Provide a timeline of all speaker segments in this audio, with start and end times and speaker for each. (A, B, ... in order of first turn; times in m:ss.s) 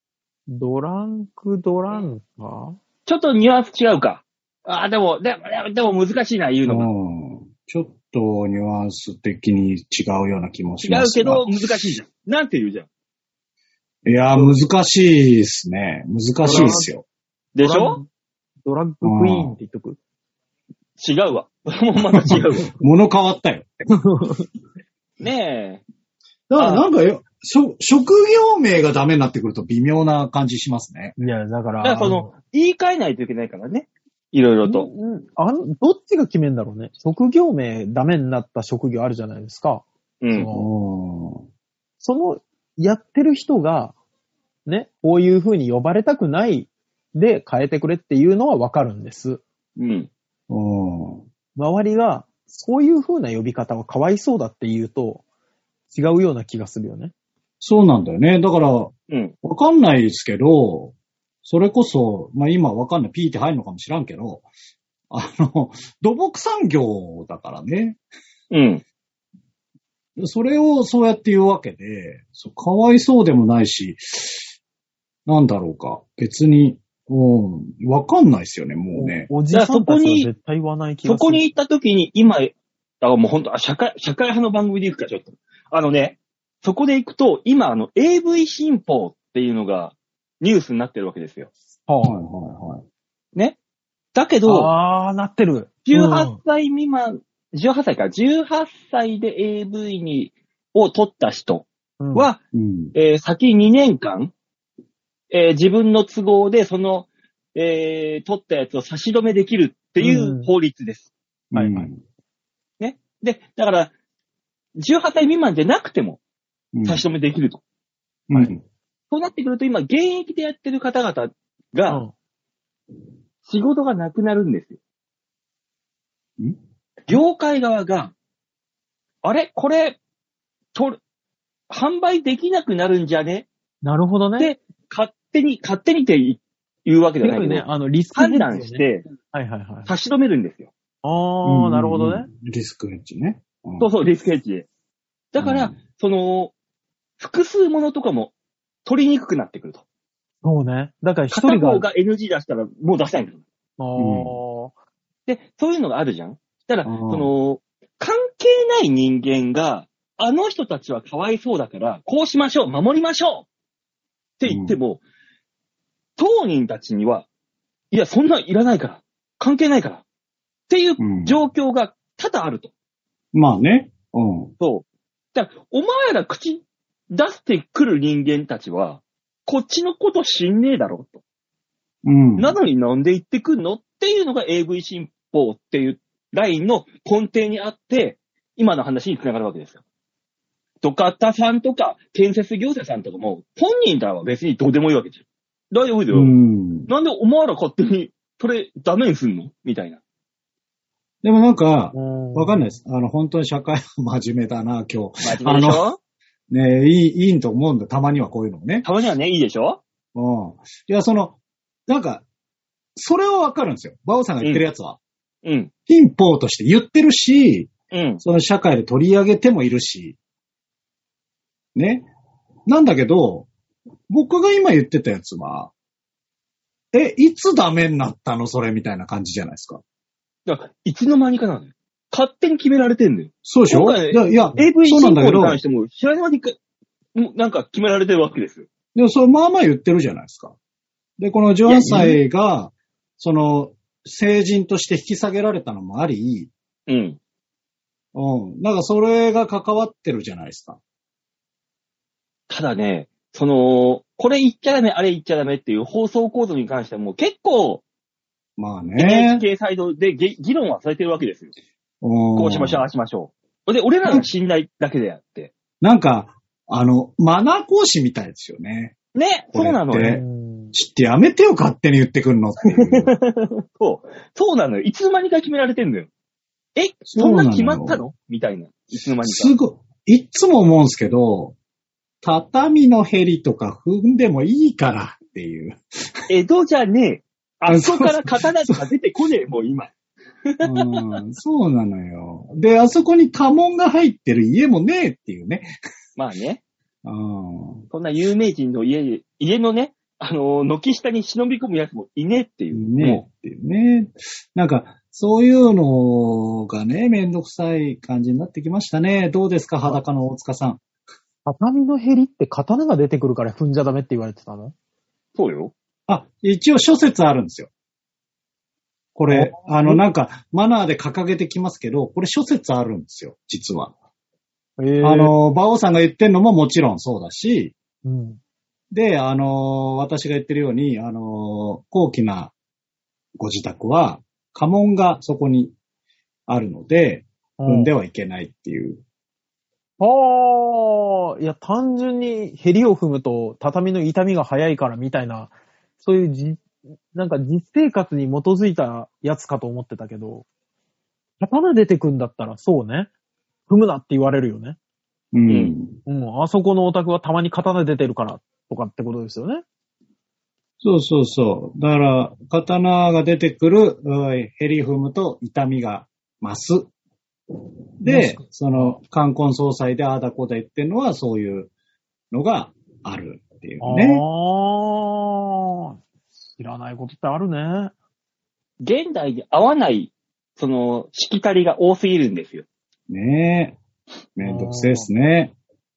0:00.5-0:02.8 A
0:03.1-0:06.9 B
0:06.6-0:11.5 C
0:10.8-0:12.9 B
0:14.0-0:17.0 C
0:16.4-0:16.9 A
0:17.6-0:18.0 B
0:17.6-0:18.1 A
0:18.6-0:20.0 A
0:19.0-0:19.6 C
0:21.0-0:22.7 B
0:22.2-0:23.7 C
0:23.9-0:24.5 A
0:25.2-0:25.8 B
0:26.5-0:31.2 C
0:26.6-0:26.8 B
0:31.2-0:32.3 A
0:31.8-0:34.9 B
0:34.6-0:40.7 A
0:40.2-0:40.5 B
0:40.5-0:41.4 C
0:42.0-0:44.0 A
0:44.7-0:49.4 A
0:49.8-0:50.1 B
0:50.5-0:51.2 C
0:51.6-0:55.2 A
0:55.9-0:57.1 A
0:57.6-1:00.9 C
0:59.1-0:59.3 B
1:01.4-1:04.5 C
1:05.1-1:08.0 C
1:08.5-1:08.8 B
1:10.2-1:14.5 C
1:15.3-1:19.3 C
1:19.0-1:21.4 A
1:19.5-1:20.3 B
1:21.0-1:31.5 B
1:31.9-1:32.2 A
1:32.0-1:32.8 C
1:34.1-1:34.7 B
1:34.5-1:36.4 A
1:35.9-1:42.4 B
1:42.0-1:42.3 A
1:42.5-1:42.9 C
1:42.9-1:44.3 B
1:45.3-1:51.1 B
1:50.0-1:50.5 A
1:51.5-1:52.0 C
1:51.5-1:51.9 A
1:52.8-1:53.9 B
1:54.8-1:56.2 B
1:56.8-1:57.0 C
1:56.8-1:57.6 B
1:58.3-1:58.6 C
1:59.1-2:02.0 B
2:01.9-2:02.1 A
2:03.4-2:04.8 B
2:07.1-2:08.1 B
2:09.2-2:10.0 B
2:10.8-2:11.0 B
2:11.7-2:13.5 B
2:13.8-2:14.5 A
2:14.4-2:19.1 B
2:17.2-2:19.9 A
2:19.9-2:20.7 B
2:21.0-2:22.3 A
2:21.4-2:23.9 C
2:23.8-2:24.7 B
2:25.3-2:26.5 B
2:25.4-2:25.7 C
2:27.2-2:28.3 B
2:28.9-2:29.8 B
2:30.4-2:31.8 A
2:31.3-2:33.4 B
2:33.8-2:34.7 A
2:34.0-2:34.4 C
2:35.3-2:43.5 B
2:36.9-2:37.3 C
2:44.4-2:45.0 B
2:44.4-2:44.8 C
2:46.2-2:47.3 B
2:47.9-2:50.0 B
2:50.7-2:52.7 B
2:51.0-2:51.4 C
2:53.3-2:54.5 C
2:54.6-3:01.2 B
3:02.0-3:02.6 C
3:02.4-3:09.8 B
3:10.8-3:16.3 B
3:16.1-3:16.9 C
3:16.9-3:20.0 B
3:21.2-3:25.8 C
3:21.9-3:22.8 A
3:25.2-3:26.0 B
3:26.5-3:28.9 C
3:28.8-3:29.8 B
3:30.1-3:32.2 C
3:33.0-3:35.0 C
3:35.4-3:35.7 B
3:35.9-3:40.2 C
3:37.9-3:38.2 B
3:41.8-3:42.1 C
3:42.7-3:43.5 C
3:44.1-3:45.7 C
3:46.9-3:49.8 C
3:50.5-3:56.6 B
3:53.4-3:55.6 C
3:57.2-3:58.7 B
3:59.0-4:00.5 C
4:01.2-4:06.5 C
4:01.7-4:02.2 B
4:06.9-4:07.2 B
4:08.1-4:10.8 C
4:12.5-4:17.8 B
4:18.6-4:19.4 C
4:19.0-4:21.5 B
4:22.0-4:22.9 C
4:22.4-4:25.5 B
4:25.8-4:29.0 C
4:29.2-4:30.2 B
4:29.5-4:33.1 C
4:30.0-4:30.7 A
4:32.8-4:36.1 B
4:36.8-4:39.5 B
4:37.1-4:38.0 C
4:39.2-4:41.6 C
4:42.2-4:46.2 C
4:46.3-4:49.9 B
4:47.7-4:48.8 C
4:50.5-4:51.2 B
4:50.6-4:55.7 C
4:56.2-4:56.6 B
4:57.0-4:57.8 C
4:57.9-5:03.2 B
5:02.7-5:10.8 C
5:11.5-5:14.7 A
5:15.4-5:15.7 B
5:16.1-5:17.7 C
5:19.2-5:23.9 C
5:19.3-5:20.0 A
5:24.8-5:25.3 A
5:25.0-5:27.7 C
5:28.0-5:28.4 A
5:28.9-5:32.5 C
5:33.4-5:35.8 C
5:36.5-5:39.0 C
5:37.6-5:37.9 A
5:40.0-5:50.5 A
5:51.4-5:53.1 A
5:53.7-5:54.8 A
5:55.3-5:56.0 C
5:56.1-5:59.6 A
6:00.8-6:06.9 C
6:08.0-6:11.7 C
6:08.0-6:09.0 A
6:12.3-6:14.2 C
6:13.8-6:17.9 A
6:18.8-6:22.6 B
6:23.1-6:23.8 C
6:24.4-6:25.5 C
6:24.4-6:25.1 A